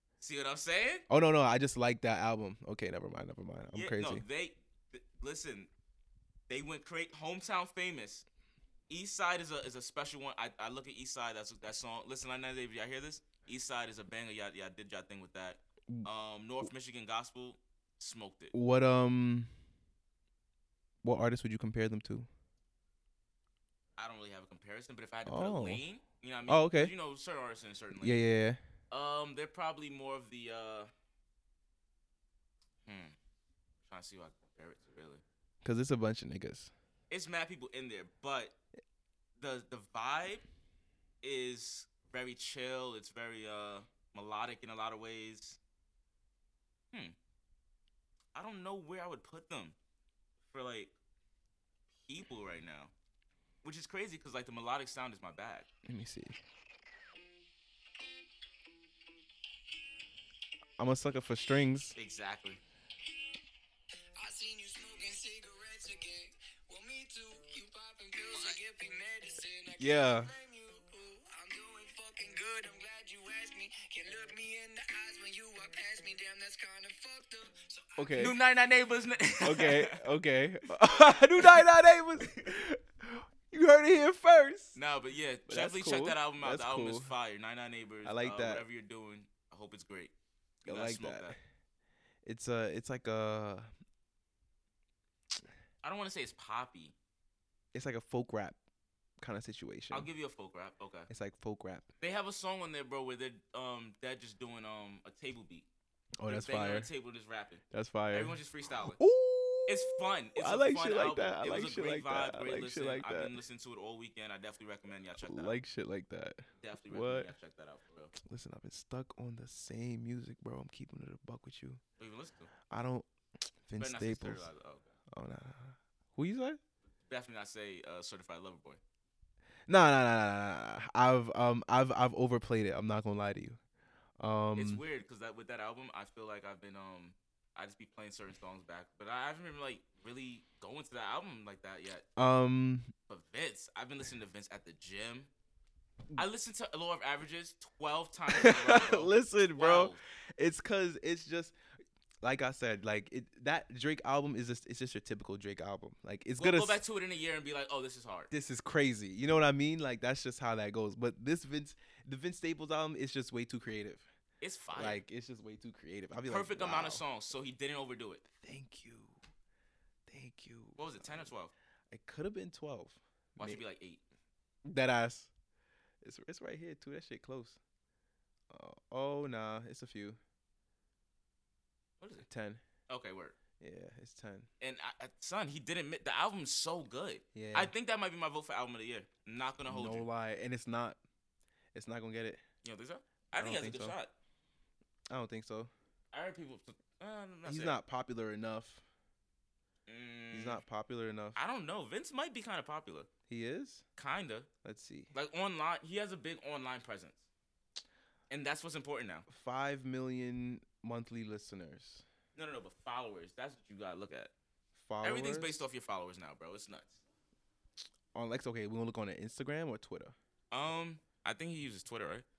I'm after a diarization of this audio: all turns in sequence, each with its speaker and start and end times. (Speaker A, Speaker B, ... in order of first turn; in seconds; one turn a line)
Speaker A: 0.2-1.1
Speaker B: 1.1-4.2
Speaker A: 3.7-5.7
Speaker A: 6.5-8.2
Speaker A: 8.9-18.5
Speaker B: 18.5-19.5
Speaker B: 21.0-22.3
Speaker A: 24.0-28.2
Speaker B: 25.3-25.8
Speaker B: 26.5-26.9
Speaker B: 28.0-28.6
Speaker A: 28.9-30.9
Speaker A: 32.9-33.1
Speaker A: 33.8-35.2
Speaker B: 35.6-36.7
Speaker A: 37.1-38.5
Speaker A: 39.4-40.4
Speaker A: 41.2-45.6
Speaker A: 48.3-49.8
Speaker A: 50.5-50.9
Speaker A: 52.0-52.9
Speaker A: 53.6-55.7
Speaker B: 55.9-56.4
Speaker B: 60.8-62.0
Speaker A: 62.0-62.6
Speaker C: 64.2-78.1
Speaker B: 69.8-70.3
Speaker B: 78.0-78.3
Speaker A: 78.2-80.0
Speaker B: 79.4-84.8
Speaker A: 81.4-81.7
Speaker A: 84.7-90.1
Speaker B: 85.5-87.1
Speaker B: 88.0-88.6
Speaker B: 90.6-91.4
Speaker A: 90.7-91.3
Speaker B: 92.2-93.7
Speaker A: 95.8-96.9
Speaker B: 97.7-98.6
Speaker B: 99.2-100.1
Speaker A: 99.9-101.1
Speaker B: 101.1-101.9
Speaker A: 102.0-105.7
Speaker B: 106.2-106.9
Speaker A: 106.3-109.0
Speaker B: 107.7-113.3
Speaker A: 109.7-115.6
Speaker B: 115.2-117.3
Speaker A: 116.6-118.1
Speaker B: 118.2-121.8
Speaker A: 122.0-122.5
Speaker B: 122.7-123.0
Speaker B: 123.7-124.5
Speaker A: 123.8-124.9
Speaker B: 125.1-126.6
Speaker A: 127.1-128.8
Speaker B: 129.7-133.6
Speaker B: 134.2-134.8
Speaker A: 134.6-142.1
Speaker B: 142.2-142.9
Speaker A: 143.1-145.3
Speaker A: 146.2-150.0
Speaker B: 148.3-151.6
Speaker B: 152.2-156.8
Speaker A: 156.4-158.3
Speaker B: 158.3-164.1
Speaker A: 164.4-165.0
Speaker B: 164.7-167.0
Speaker A: 166.3-168.2
Speaker B: 168.3-169.1
Speaker B: 170.1-171.3
Speaker A: 170.8-171.5
Speaker B: 171.9-173.6
Speaker A: 173.4-174.0
Speaker B: 174.7-175.3
Speaker B: 176.0-177.6
Speaker B: 178.5-180.2
Speaker A: 182.0-182.2
Speaker B: 182.2-182.6
Speaker A: 182.9-183.4
Speaker B: 183.6-184.5
Speaker A: 184.6-190.1
Speaker B: 187.3-187.7
Speaker B: 189.7-191.0
Speaker B: 191.7-192.4
Speaker A: 192.6-194.1
Speaker B: 193.4-193.9
Speaker B: 195.1-195.7
Speaker A: 196.1-197.8
Speaker B: 197.4-198.8
Speaker A: 199.9-200.6
Speaker B: 200.3-201.4
Speaker A: 201.4-203.1
Speaker B: 203.3-203.8
Speaker A: 204.0-204.5
Speaker B: 204.6-205.1
Speaker A: 205.1-207.2
Speaker A: 208.3-209.3
Speaker B: 209.3-212.0
Speaker A: 212.4-214.3
Speaker B: 214.8-215.6
Speaker A: 215.0-217.0
Speaker B: 218.1-220.1
Speaker A: 220.5-222.2